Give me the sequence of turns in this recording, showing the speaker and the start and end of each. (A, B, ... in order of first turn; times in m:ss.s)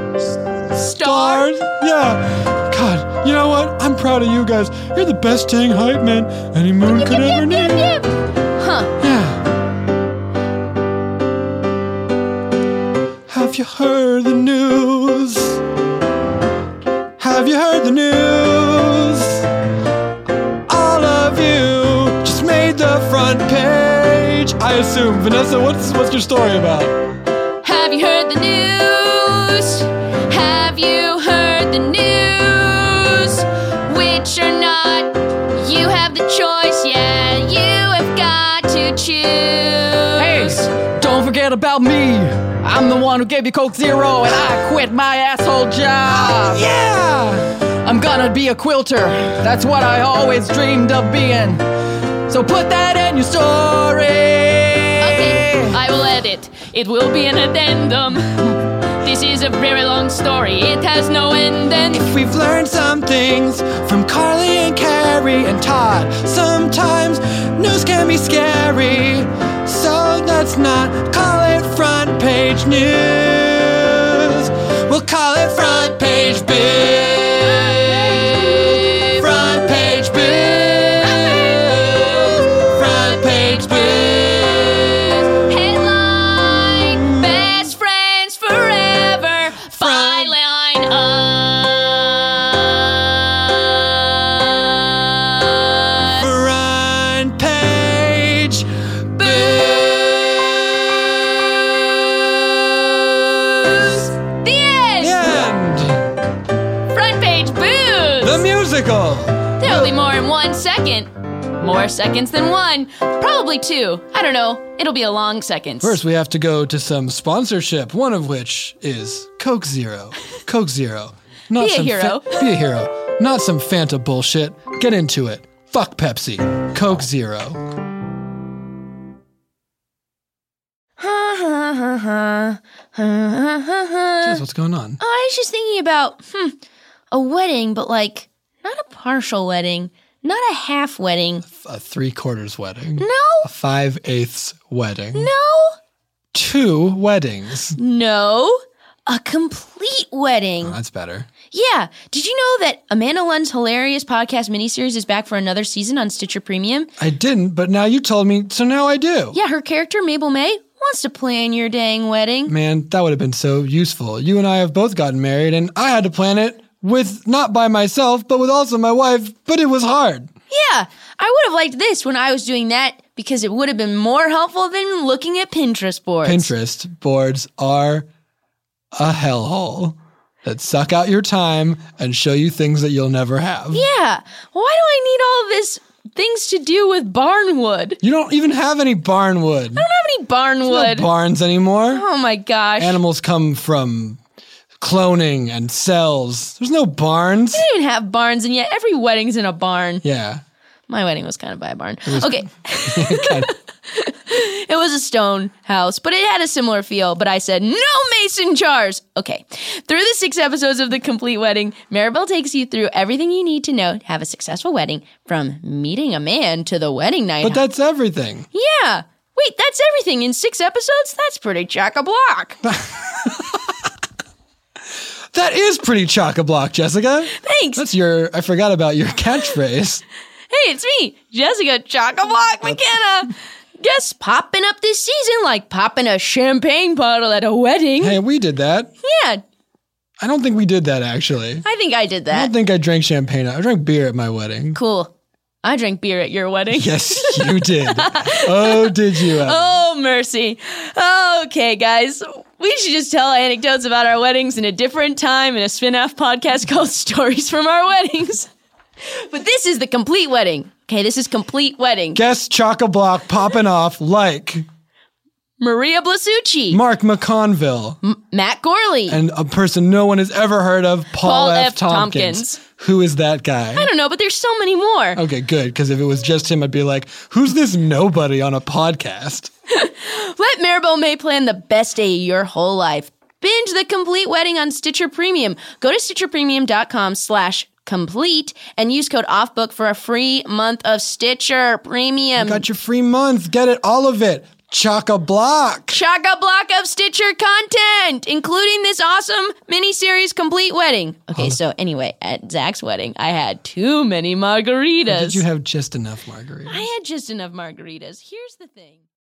0:00.7-0:01.5 A
0:00.8-0:08.0 B
0:06.8-0:08.9 A
0:09.0-0:09.4 B
0:13.3-0:15.6 B
0:17.2-0:19.5 B
0:20.7-0:27.0 B
0:27.6-0:40.7 A
0:40.2-0:46.7 C
0:46.0-0:47.5 B
0:47.8-0:51.6 C
0:52.3-0:55.8 C
0:55.0-1:02.0 A
1:01.9-1:18.6 B
1:17.2-1:36.4 A
1:19.1-1:25.1 B
1:29.7-1:30.3 B
1:36.2-1:44.1 B
1:39.2-1:40.3 A
1:43.4-1:45.2 A
1:45.0-1:46.1 B
1:46.9-1:48.4 A
1:48.2-1:49.9 B
1:49.6-1:56.0 A
1:55.8-2:07.6 B
2:01.6-2:02.5 A
2:11.0-2:14.4 A
2:14.2-2:15.0 B
2:15.0-2:16.6 A
2:17.1-2:21.4 A
2:21.4-2:25.3 B
2:23.0-2:23.5 A
2:25.2-2:25.8 A
2:26.3-2:27.8 B
2:27.8-2:30.8 A
2:30.6-2:31.3 B
2:31.5-2:36.9 A
2:37.0-2:39.4 B
2:39.3-2:42.5 A
2:42.5-2:50.3 B
2:50.5-2:56.5 A
2:56.2-2:58.1 B
2:59.0-3:03.8 B
3:03.7-3:08.0 A
3:08.0-3:09.9 B
3:09.8-3:11.1 A
3:10.7-3:12.0 B
3:11.9-3:13.0 A
3:12.8-3:14.2 B
3:14.8-3:17.6 B
3:17.5-3:20.0 A
3:20.0-3:20.4 B
3:20.9-3:37.6 A
3:22.1-3:23.5 B
3:37.4-3:38.5 B
3:38.5-3:42.6 A
3:42.6-3:43.7 B
3:45.3-3:50.0 B
3:47.4-3:47.8 A
3:50.5-3:58.2 A
3:58.0-3:58.9 B
3:59.0-3:59.4 A
4:00.2-4:01.6 B
4:01.6-4:02.5 A
4:02.3-4:04.8 B
4:04.8-4:05.1 A
4:05.6-4:18.5 A
4:06.7-4:09.6 B
4:19.1-4:22.2 A
4:22.1-4:24.7 B
4:25.6-4:26.8 A
4:26.7-4:28.0 B
4:28.0-4:29.2 A
4:29.1-4:33.9 B
4:31.2-4:32.6 A
4:33.8-4:35.2 A
4:35.1-4:39.5 B
4:39.7-4:52.6 A
4:52.4-4:56.0 B
4:55.9-5:05.4 A
5:05.1-5:06.9 B
5:06.7-5:09.0 A